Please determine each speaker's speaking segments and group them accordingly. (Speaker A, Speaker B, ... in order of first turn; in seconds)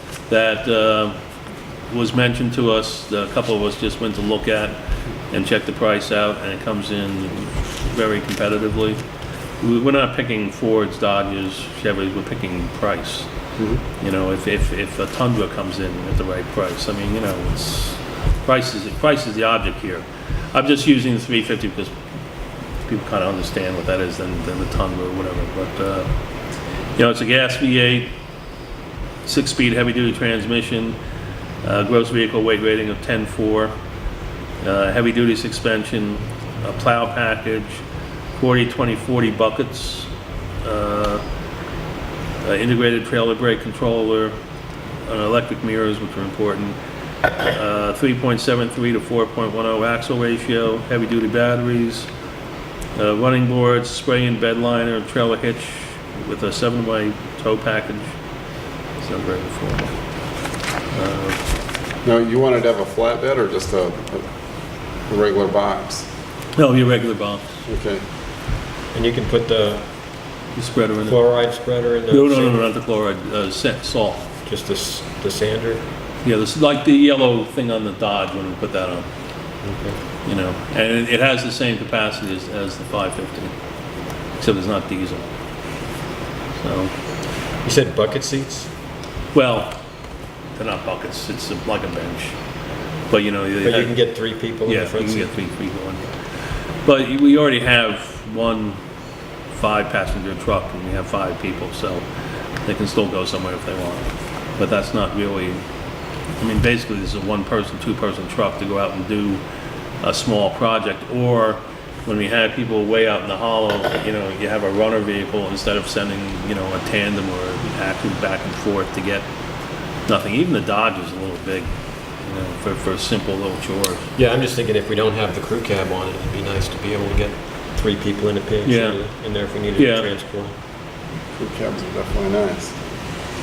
Speaker A: 0.3-1.2, 1.9-4.8, 5.3-9.0, 9.6-13.3, 14.0-22.0, 22.9-26.1, 27.0-28.1, 29.2-31.0, 31.6-33.7, 34.6-37.8, 38.4-40.1, 40.6-41.2, 42.4-44.3, 45.1-46.8, 47.4-52.1, 53.0-58.1, 59.0-60.0, 60.9-61.4, 66.6-67.5, 70.6-71.2, 72.1-74.3, 76.2-79.1, 80.2-83.5, 84.4-85.3, 86.6-86.9, 89.3-89.8, 90.6-92.4, 93.1-94.0, 94.7-96.1, 96.8-98.8, 99.5-102.0, 102.7-105.6, 106.4-109.4, 110.0-119.3, 120.1-121.7, 122.2-124.1, 128.7-129.0, 129.8-130.1
Speaker B: 62.0-64.3, 65.1-66.1, 67.7-68.0, 131.4-132.8
Speaker C: 68.9-69.8, 71.0-72.6, 74.5-75.8, 79.6-80.0, 87.6-88.7, 93.6-95.3, 124.2-130.5